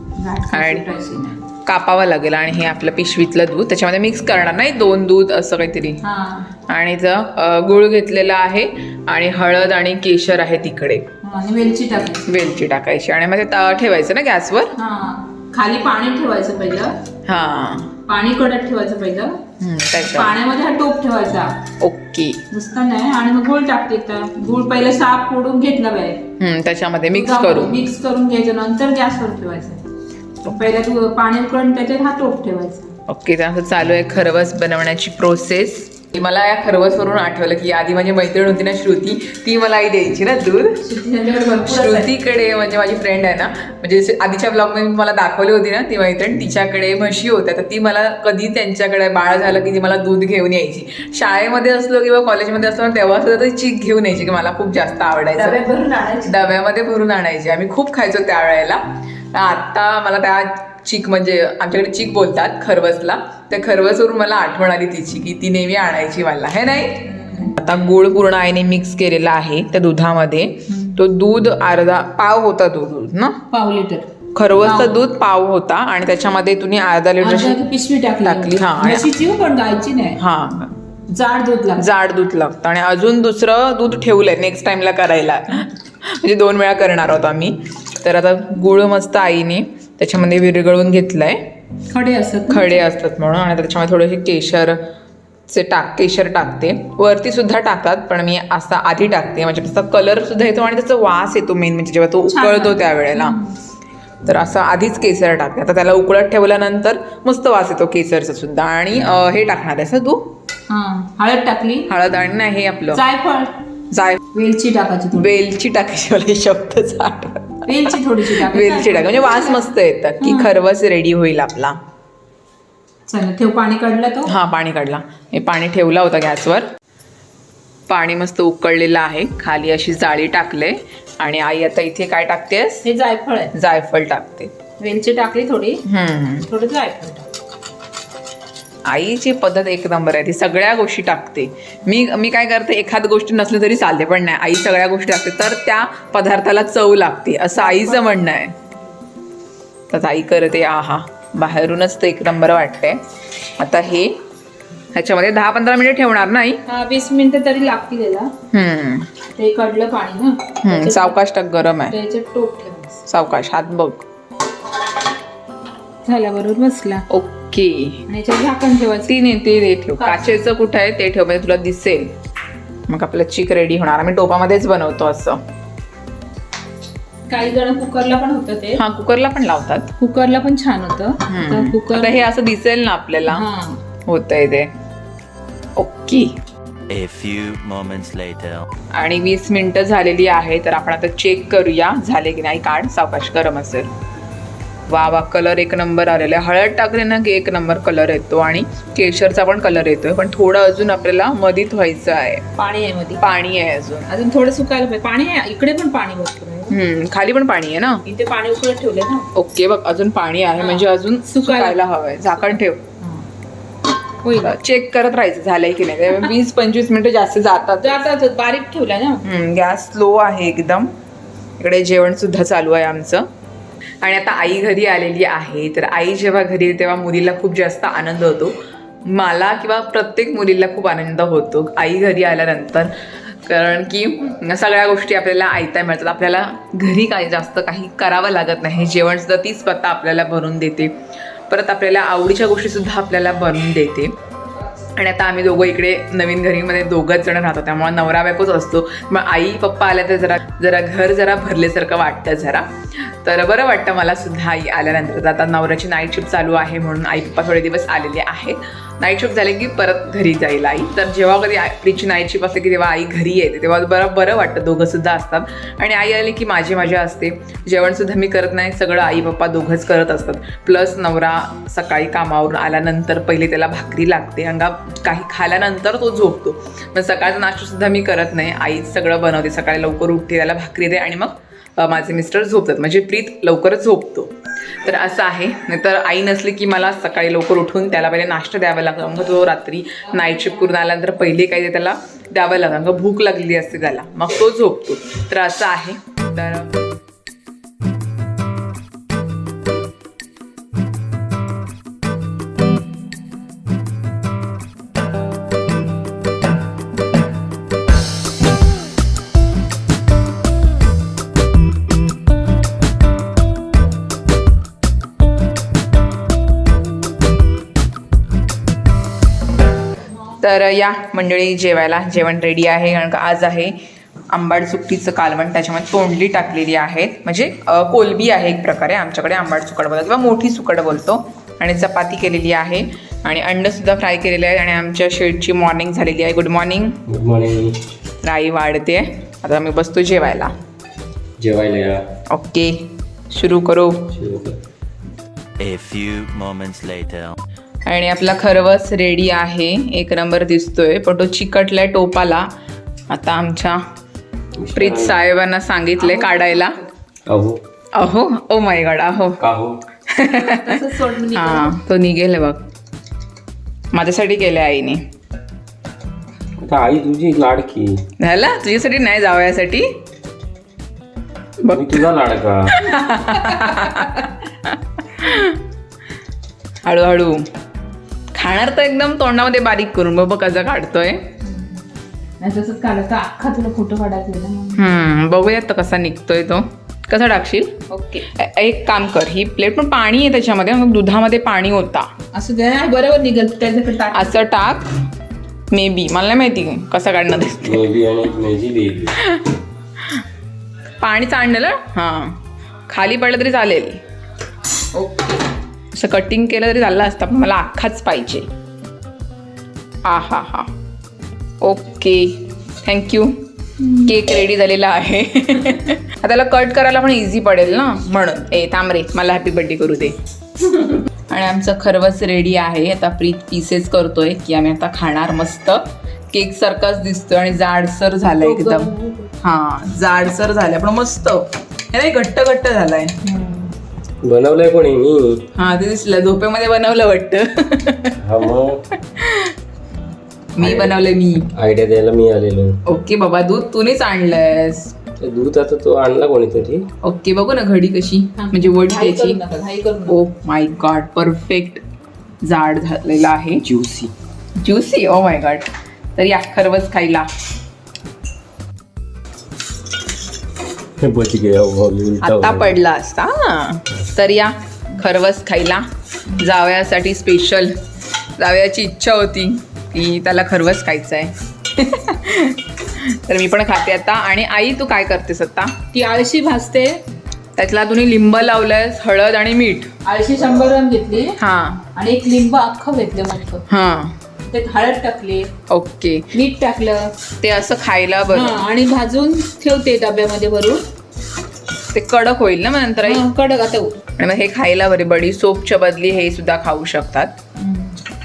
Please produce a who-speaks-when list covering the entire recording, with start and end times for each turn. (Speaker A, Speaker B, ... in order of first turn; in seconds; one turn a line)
Speaker A: 0.2-1.4
Speaker B: 0.5-0.8
Speaker B: 1.6-6.0
Speaker A: 6.0-6.5
Speaker B: 6.7-11.1
Speaker A: 11.2-12.3
Speaker B: 12.2-14.7
Speaker A: 14.8-16.9
Speaker B: 17.2-17.9
Speaker A: 18.1-19.4
Speaker B: 19.6-20.3
Speaker A: 20.0-21.6
Speaker B: 21.8-22.4
Speaker A: 22.5-26.2
Speaker B: 26.4-27.9
Speaker A: 27.1-29.8
Speaker A: 30.4-32.9
Speaker B: 33.1-40.8
Speaker A: 40.8-42.1
Speaker B: 41.6-55.6
Speaker A: 55.4-56.4
Speaker B: 56.2-73.4
Speaker A: 67.0-67.5
Speaker A: 70.7-71.0
Speaker A: 73.5-74.1
Speaker B: 74.3-77.6
Speaker A: 74.6-75.0
Speaker A: 77.2-80.2
Speaker B: 78.2-79.1
Speaker B: 80.2-80.8
Speaker A: 81.1-81.8
Speaker B: 81.8-91.4
Speaker A: 91.9-92.8
Speaker B: 92.5-94.8
Speaker B: 95.5-103.4
Speaker A: 102.3-103.5
Speaker B: 104.2-110.3
Speaker A: 110.7-111.9
Speaker B: 111.9-113.0
Speaker A: 112.9-113.5
Speaker B: 113.9-114.2
Speaker A: 114.3-115.3
Speaker B: 115.1-121.8
Speaker A: 117.6-120.5
Speaker A: 123.1-124.3
Speaker B: 124.3-126.7
Speaker B: 127.9-132.8
Speaker A: 132.8-133.5
Speaker B: 133.5-134.5
Speaker A: 134.8-135.8
Speaker B: 135.8-136.5
Speaker A: 136.5-137.3
Speaker B: 138.9-148.5
Speaker A: 147.6-148.1
Speaker B: 149.9-153.0
Speaker B: 153.6-154.2
Speaker B: 154.9-156.6
Speaker A: 156.7-158.3
Speaker B: 158.5-159.1
Speaker A: 159.4-161.2
Speaker B: 160.6-161.9
Speaker A: 161.9-163.0
Speaker B: 163.1-164.0
Speaker A: 166.1-167.1
Speaker B: 167.1-168.0
Speaker A: 168.1-169.1
Speaker B: 169.1-172.1
Speaker A: 170.0-170.3
Speaker B: 172.9-175.4
Speaker A: 177.3-178.8
Speaker B: 178.8-179.9
Speaker A: 180.0-182.2
Speaker B: 181.3-183.4
Speaker A: 183.3-183.8
Speaker B: 184.1-184.7
Speaker B: 185.8-186.3
Speaker C: 186.9-188.7
Speaker B: 188.9-193.9
Speaker B: 194.9-202.4
Speaker A: 202.6-203.2
Speaker B: 203.2-204.1
Speaker A: 204.1-206.8
Speaker B: 206.7-208.0
Speaker A: 208.1-209.3
Speaker B: 209.3-212.8
Speaker A: 210.6-211.8
Speaker A: 214.2-214.6
Speaker B: 214.4-218.0
Speaker A: 217.8-219.2
Speaker B: 219.2-220.9
Speaker B: 221.6-223.3
Speaker B: 224.0-240.9
Speaker B: 241.5-244.1
Speaker B: 244.9-296.7
Speaker B: 320.4-323.8
Speaker B: 324.3-337.0
Speaker D: 337.1-337.8
Speaker B: 338.2-340.5
Speaker D: 341.4-342.0
Speaker B: 342.3-344.1
Speaker D: 344.1-344.6
Speaker C: 345.6-347.4
Speaker B: 347.9-352.5
Speaker B: 353.1-353.8
Speaker D: 354.6-355.2
Speaker B: 354.7-356.8
Speaker A: 356.0-356.9
Speaker D: 357.3-357.6
Speaker B: 357.9-359.4
Speaker D: 359.4-359.8
Speaker B: 360.1-362.6
Speaker A: 360.4-361.7
Speaker B: 363.9-365.0
Speaker D: 366.6-368.0
Speaker B: 368.2-369.9
Speaker B: 371.6-372.0
Speaker D: 371.7-372.8
Speaker B: 372.7-375.6
Speaker A: 373.5-374.1
Speaker B: 376.8-377.5
Speaker B: 378.3-381.3
Speaker A: 381.4-381.8
Speaker A: 382.4-384.9
Speaker B: 384.8-392.1
Speaker A: 387.9-388.2
Speaker A: 392.3-394.4
Speaker B: 394.1-394.9
Speaker B: 395.7-397.9
Speaker D: 397.5-399.1
Speaker B: 399.2-399.5
Speaker B: 401.0-404.0
Speaker B: 404.9-405.3
Speaker B: 405.9-408.5
Speaker B: 410.0-410.7
Speaker B: 411.6-413.4
Speaker B: 414.0-433.2
Speaker A: 428.4-429.3
Speaker A: 433.2-433.7
Speaker D: 434.2-435.4
Speaker B: 435.6-438.1
Speaker D: 438.2-438.8
Speaker B: 439.0-439.5
Speaker B: 440.5-441.5
Speaker D: 440.6-441.0
Speaker D: 441.5-442.8
Speaker B: 442.9-444.9
Speaker D: 445.2-446.9
Speaker B: 447.0-449.4
Speaker A: 448.4-450.1
Speaker B: 450.1-451.8
Speaker B: 452.4-453.6
Speaker D: 453.6-454.1
Speaker B: 454.6-457.3
Speaker D: 461.0-462.8
Speaker B: 462.2-467.7
Speaker B: 468.4-475.8
Speaker A: 475.9-477.0
Speaker B: 477.6-479.9
Speaker A: 480.0-481.4
Speaker B: 481.4-481.9
Speaker A: 481.9-483.6
Speaker B: 483.7-484.2
Speaker A: 484.5-485.5
Speaker B: 485.7-486.3
Speaker A: 486.3-487.1
Speaker B: 487.4-488.6
Speaker A: 488.3-490.8
Speaker B: 491.9-493.2
Speaker A: 493.0-494.0
Speaker B: 494.2-497.4
Speaker A: 497.6-498.0